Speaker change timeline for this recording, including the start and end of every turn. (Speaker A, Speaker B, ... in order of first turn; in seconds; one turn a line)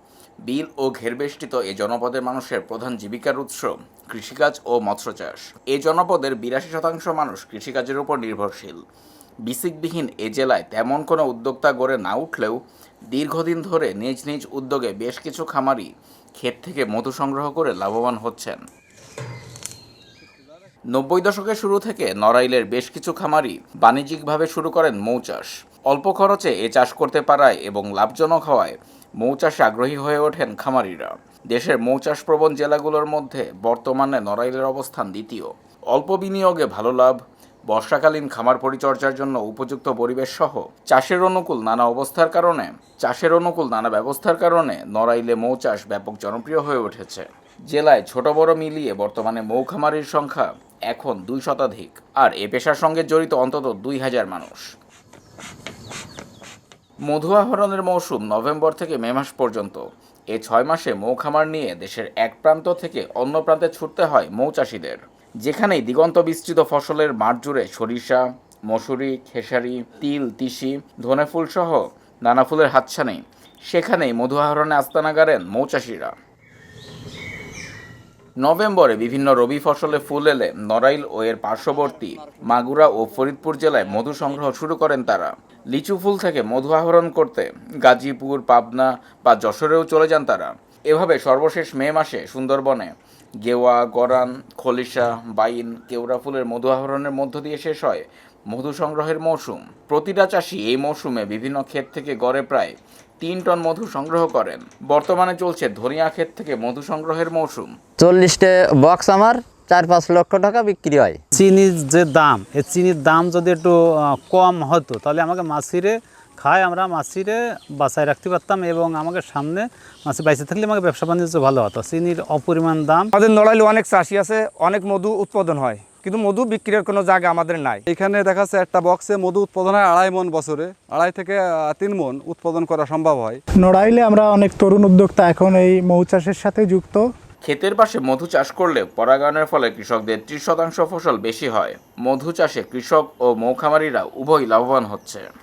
Speaker A: 0.5-8.8
Speaker A: 9.4-12.6
Speaker A: 13.1-15.9
Speaker A: 16.4-18.6
Speaker A: 20.9-37.2
Speaker A: 37.7-54.6
Speaker A: 57.1-59.8
Speaker A: 60.3-76.1
Speaker A: 78.4-107.7
Speaker B: 108.0-111.2
Speaker C: 111.3-123.1
Speaker D: 123.2-127.8
Speaker E: 127.9-133.4
Speaker F: 133.6-137.1
Speaker A: 137.4-145.3